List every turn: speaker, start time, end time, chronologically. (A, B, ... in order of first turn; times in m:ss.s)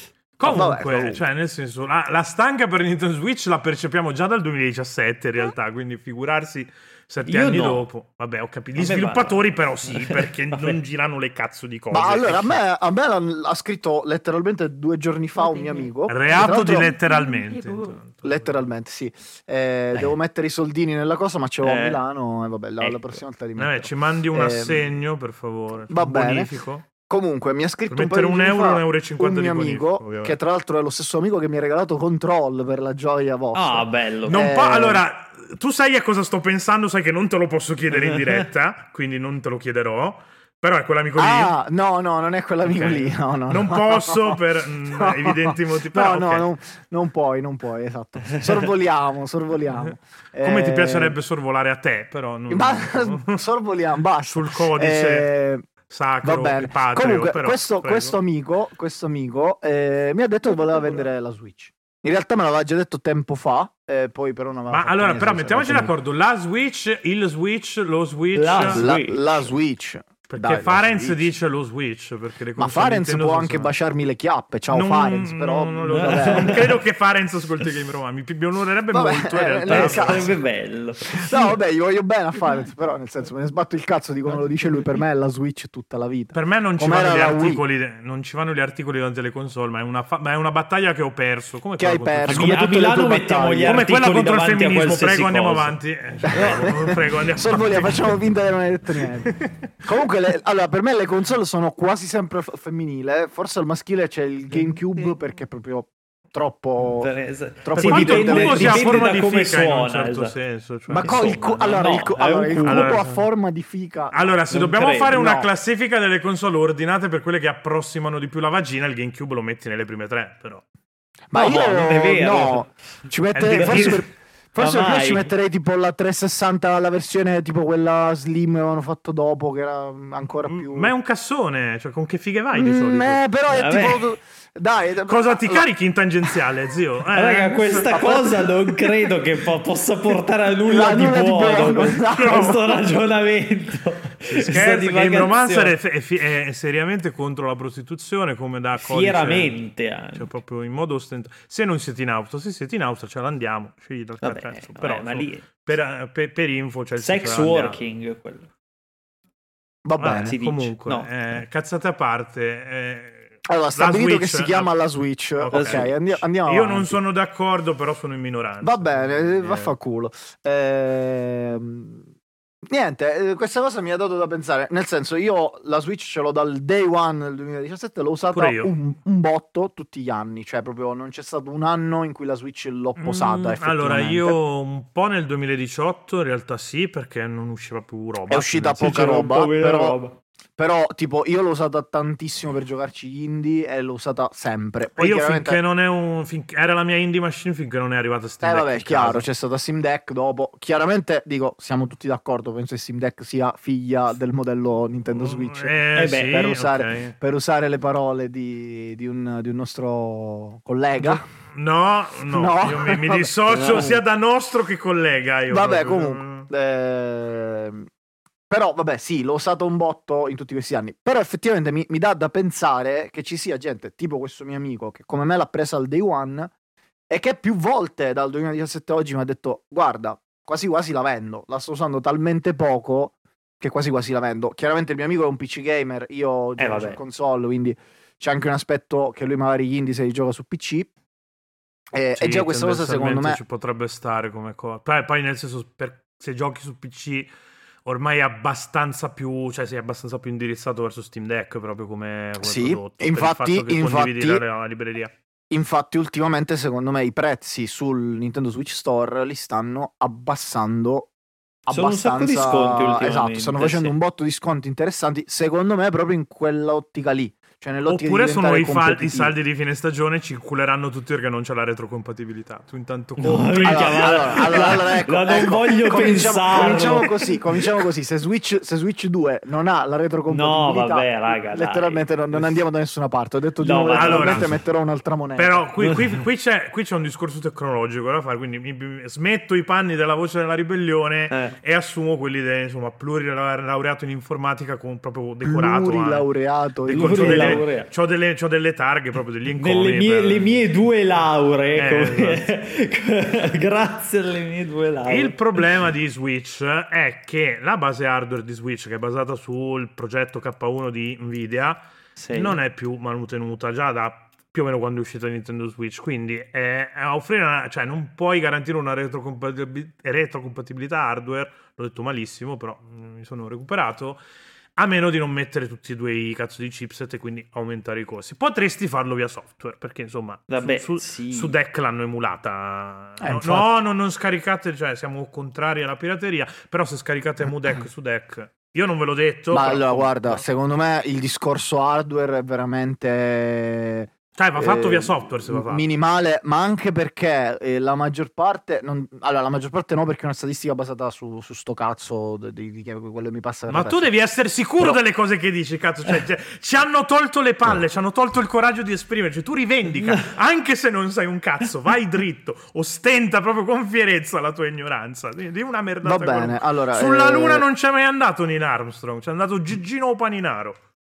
0:00.4-0:12.6 A
0:00.4-0:01.2 B
0:07.2-0:07.8 C
0:08.8-0:10.8 C
0:11.9-0:16.9 B
0:16.1-0:18.5 A
0:18.2-0:24.9 B
0:21.6-0:22.0 C
0:22.8-0:23.2 C
0:23.6-0:26.9 A
0:25.9-0:35.0 B
0:27.9-0:30.4 A
0:33.5-0:34.4 C
0:34.3-0:41.5 A
0:37.9-0:38.5 C
0:41.2-0:51.2 B
0:42.7-0:46.5 A
0:50.4-0:53.4 A
0:52.5-0:55.7 B
0:54.3-0:55.3 A
0:55.9-0:58.2 A
0:56.2-1:05.9 B
1:04.7-1:08.8 A
1:08.4-1:09.5 C
1:08.7-1:11.2 B
1:10.3-1:13.7 A
1:12.6-1:16.7 B
1:14.7-1:20.4 A
1:15.9-1:16.8 C
1:18.9-1:20.3 B
1:19.7-1:21.5 C
1:21.1-1:27.6 B
1:26.3-1:32.6 A
1:31.8-1:33.8 B
1:32.3-1:35.8 C
1:33.6-1:38.2 A
1:36.3-1:49.0 B
1:39.2-1:39.6 A
1:47.0-1:50.4 C
1:47.8-1:51.8 A
1:50.9-1:54.2 B
1:51.0-1:53.0 C
1:52.6-1:53.2 A
1:54.1-2:00.6 A
1:54.5-1:55.2 C
1:55.1-1:55.5 B
2:01.3-2:10.9 B
2:01.3-2:02.7 C
2:03.4-2:04.0 A
2:03.5-2:04.1 C
2:04.6-2:05.3 C
2:10.5-2:13.2 A
2:12.5-2:15.7 B
2:13.5-2:14.1 C
2:15.1-2:17.9 A
2:17.1-2:25.7 C
2:17.9-2:18.8 B
2:20.7-2:22.6 B
2:22.1-2:22.8 A
2:24.3-2:29.6 A
2:28.8-2:30.3 C
2:30.1-2:37.8 A
2:34.2-2:35.5 C
2:37.0-2:38.5 C
2:39.8-2:40.4 B
2:40.0-2:44.7 A
2:40.1-2:41.4 C
2:43.5-2:47.0 B
2:45.4-2:49.7 A
2:45.5-2:46.0 C
2:48.6-2:52.1 B
2:52.7-3:04.4 B
2:58.3-2:58.7 A
3:03.0-3:09.0 A
3:08.3-3:10.0 B
3:08.8-3:10.2 C
3:10.6-3:15.6 B
3:15.0-3:19.3 A
3:18.4-3:31.2 B
3:25.1-3:27.1 A
3:25.9-3:26.4 C
3:31.0-3:36.5 A
3:32.3-3:34.0 B
3:33.5-3:34.0 C
3:35.5-3:37.9 B
3:38.5-3:46.5 B
3:47.1-4:00.9 B
3:56.6-3:57.0 C
4:01.9-4:03.4 B
4:02.2-4:07.3 A
4:07.8-4:15.1 A
4:12.4-4:14.4 B
4:15.5-4:21.1 B
4:21.7-4:29.3 B
4:21.7-4:24.0 C
4:27.9-4:34.8 A
4:33.2-4:37.3 C
4:33.6-4:45.6 B
4:40.3-4:42.6 C
4:43.6-4:44.6 C
4:43.9-4:44.5 A
4:45.4-4:56.3 A
4:45.8-4:46.2 C
4:51.3-4:51.6 C
4:55.4-4:57.6 B
4:56.9-5:00.6 A
4:56.9-4:57.9 C
4:59.6-5:05.6 C
5:01.8-5:02.4 A
5:05.1-5:11.8 A
5:12.2-5:12.6 C
5:12.3-5:24.2 A
5:24.8-5:40.4 A
5:30.5-5:31.6 C
5:33.2-5:33.7 B
5:39.5-5:54.1 B
5:44.4-5:45.8 A
5:53.7-6:10.8 A
6:06.0-6:07.7 B